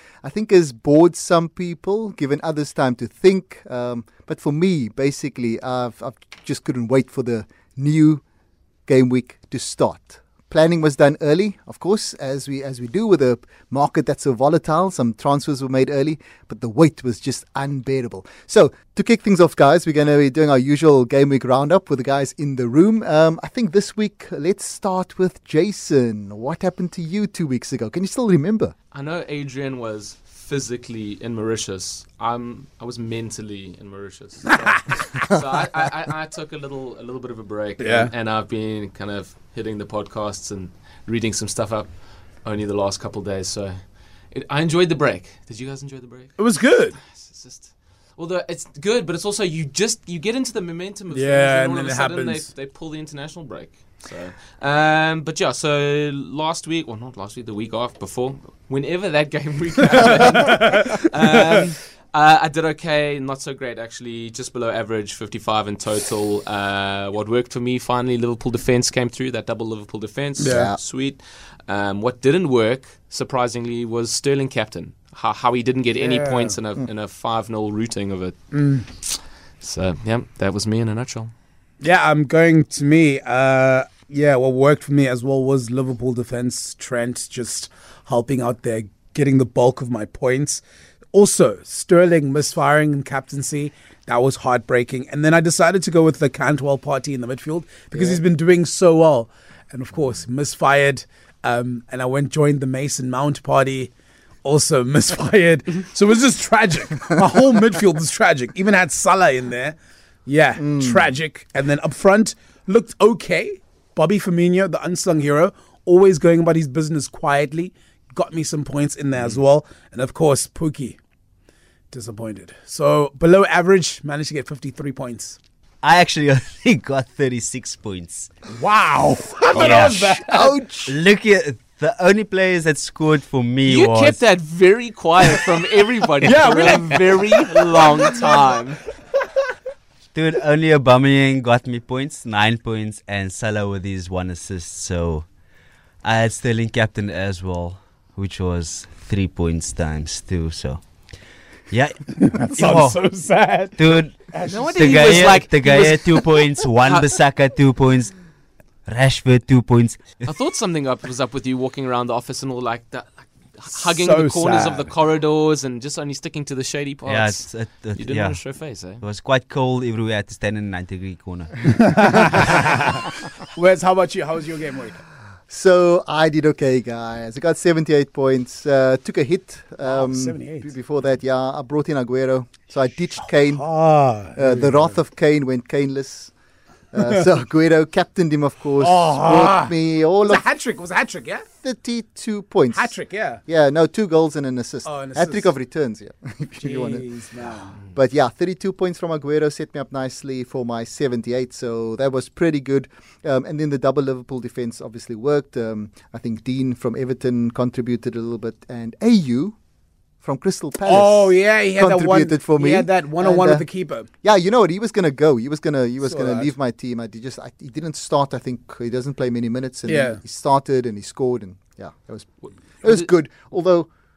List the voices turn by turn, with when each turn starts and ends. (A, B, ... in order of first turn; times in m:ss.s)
0:00.2-0:08.2 A
0:08.9-0:28.7 A
0:28.9-1:21.3 B
0:37.8-0:38.1 C
0:46.4-0:47.0 C
0:51.1-0:52.5 C
1:00.4-1:01.0 C
1:10.4-1:10.7 C
1:10.4-1:10.8 A
1:16.0-1:16.6 C
1:18.5-1:18.8 C
1:21.8-1:43.9 C
1:37.9-1:38.2 A
1:44.4-2:01.0 C
1:50.6-1:51.0 A
2:01.9-2:05.4 C
2:05.8-2:08.3 D
2:08.5-2:10.5 C
2:09.5-2:10.1 D
2:09.5-2:11.0 A
2:10.8-2:14.2 D
2:13.7-2:18.9 B
2:16.2-2:18.4 C
2:20.1-2:25.3 D
2:26.0-2:31.1 D
2:31.7-2:33.2 D
2:32.3-2:35.5 C
2:33.8-2:38.2 D
2:34.4-2:37.2 B
2:38.8-2:40.3 D
2:40.2-2:49.0 B
2:44.0-2:44.9 C
2:47.0-2:52.1 D
2:52.0-2:52.6 C
2:53.5-2:55.0 C
2:55.5-3:06.3 A
2:59.8-3:00.7 C
3:03.3-3:05.0 C
3:06.9-3:10.4 A
3:08.8-3:11.5 C
3:11.6-3:17.1 A
3:12.7-3:13.4 C
3:14.8-3:15.5 C
3:16.6-3:17.8 C
3:17.9-3:29.6 A
3:30.2-3:43.9 A
3:30.8-3:34.1 C
3:36.1-3:36.5 C
3:39.9-3:40.2 C
3:42.4-3:43.1 B